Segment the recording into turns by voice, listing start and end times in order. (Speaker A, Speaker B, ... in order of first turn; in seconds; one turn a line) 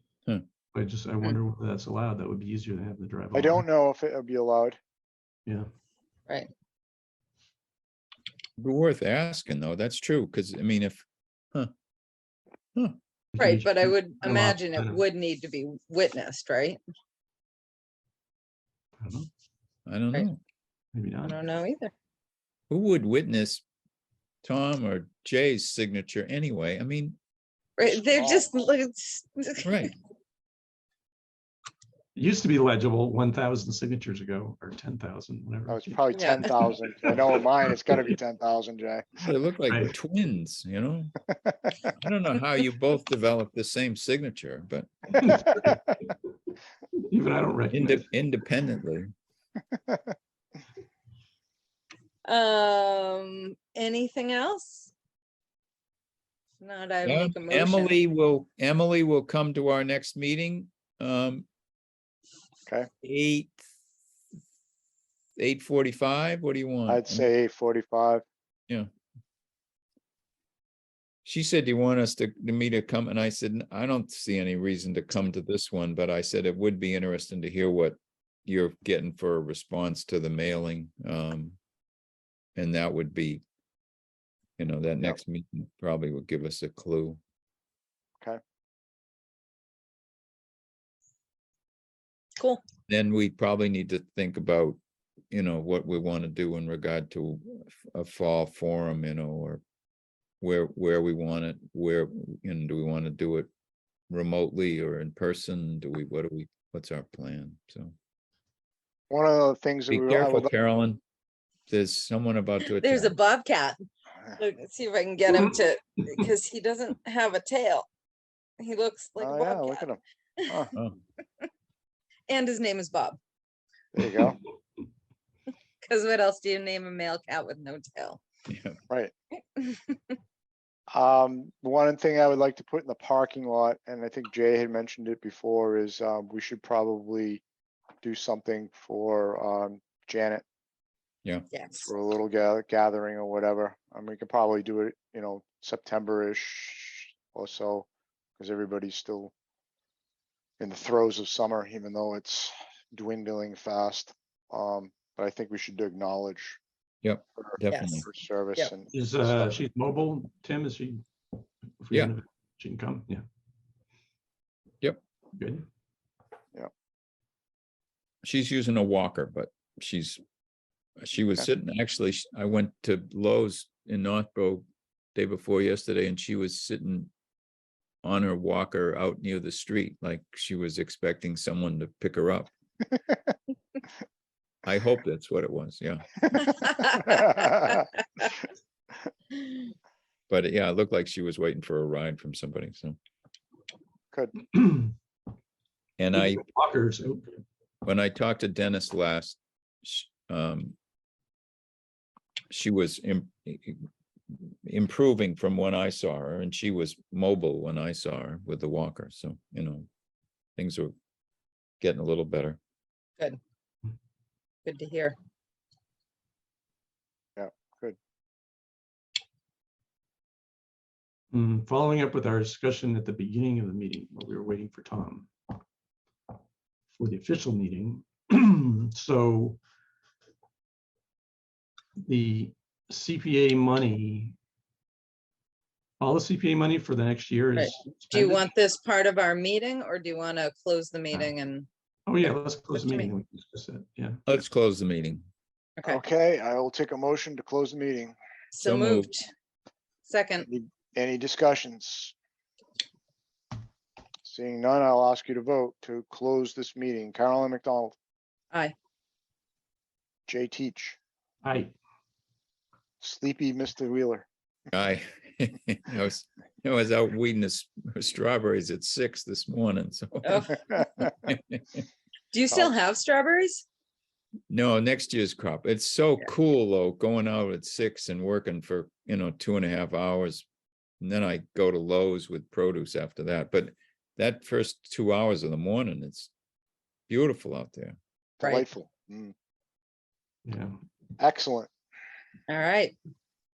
Speaker A: 0.7-3.6
Speaker B: 3.3-4.8
Speaker C: 8.6-11.7
Speaker A: 13.3-15.0
Speaker D: 13.4-16.8
Speaker A: 19.0-19.3
Speaker C: 19.9-20.4
Speaker A: 20.9-21.4
Speaker D: 21.2-21.9
Speaker C: 22.7-23.6
Speaker C: 24.4-27.2
Speaker D: 27.8-29.9
Speaker B: 27.8-28.5
Speaker C: 29.6-29.9
Speaker A: 32.1-36.7
Speaker B: 35.7-39.2
Speaker D: 36.1-36.5
Speaker C: 39.2-41.1
Speaker A: 39.7-39.9
Speaker B: 41.3-41.9
Speaker C: 42.0-45.2
Speaker B: 45.1-45.7
Speaker A: 45.1-46.1
Speaker A: 47.0-48.1
Speaker C: 47.7-49.1
Speaker B: 49.7-50.1
Speaker D: 52.2-54.9
Speaker D: 56.6-57.9
Speaker C: 57.0-61.5
Speaker C: 63.0-63.6
Speaker C: 65.4-67.2
Speaker B: 66.9-68.2
Speaker C: 71.2-81.6
Speaker C: 82.5-83.4
Speaker C: 84.6-87.2
Speaker C: 92.9-94.8
Speaker C: 95.3-99.6
Speaker C: 100.4-103.5
Speaker C: 104.1-107.9
Speaker B: 109.1-110.5
Speaker C: 109.9-111.0
Speaker C: 111.7-113.2
Speaker D: 112.6-113.8
Speaker D: 114.4-117.9
Speaker D: 118.6-119.8
Speaker B: 119.2-120.7
Speaker C: 120.7-121.0
Speaker D: 122.3-123.2
Speaker B: 123.9-124.4
Speaker D: 125.8-128.2
Speaker C: 128.5-128.8
Speaker D: 129.6-130.1
Speaker B: 130.9-137.4
Speaker B: 138.0-140.4
Speaker D: 141.5-141.9
Speaker B: 141.8-147.9
Speaker B: 148.4-149.3
Speaker B: 150.6-156.6
Speaker C: 157.0-158.1
Speaker B: 157.4-159.6
Speaker D: 157.7-158.7
Speaker A: 158.9-161.0
Speaker A: 161.8-163.2
Speaker A: 165.3-165.7
Speaker C: 168.2-170.2
Speaker C: 171.0-177.1
Speaker C: 178.0-182.5
Speaker C: 184.6-186.2
Speaker D: 186.4-187.8
Speaker B: 186.9-187.8
Speaker C: 190.3-193.0
Speaker A: 194.5-194.9
Speaker C: 196.0-196.4
Speaker A: 196.1-197.4
Speaker C: 197.8-200.8
Speaker C: 202.5-209.9
Speaker C: 210.6-210.9
Speaker C: 211.8-212.6
Speaker D: 214.6-215.2
Speaker B: 217.4-217.9
Speaker A: 221.3-225.3
Speaker A: 226.9-229.6
Speaker A: 232.0-234.3
Speaker A: 236.0-238.4
Speaker D: 237.5-241.7
Speaker A: 242.1-244.2
Speaker D: 242.7-243.1
Speaker C: 244.3-245.2
Speaker B: 245.8-248.1
Speaker D: 248.5-249.3
Speaker C: 248.6-249.1
Speaker D: 250.1-250.5
Speaker B: 250.4-252.1
Speaker B: 254.2-257.9
Speaker B: 260.3-261.0
Speaker A: 261.4-261.7
Speaker B: 263.0-264.2
Speaker C: 264.7-271.8
Speaker D: 270.2-270.7
Speaker D: 272.3-273.6
Speaker C: 274.5-280.5
Speaker C: 281.0-286.3
Speaker C: 287.1-287.9
Speaker B: 288.4-289.3
Speaker D: 288.4-288.6
Speaker A: 290.4-290.8
Speaker B: 291.2-291.7
Speaker D: 292.5-292.9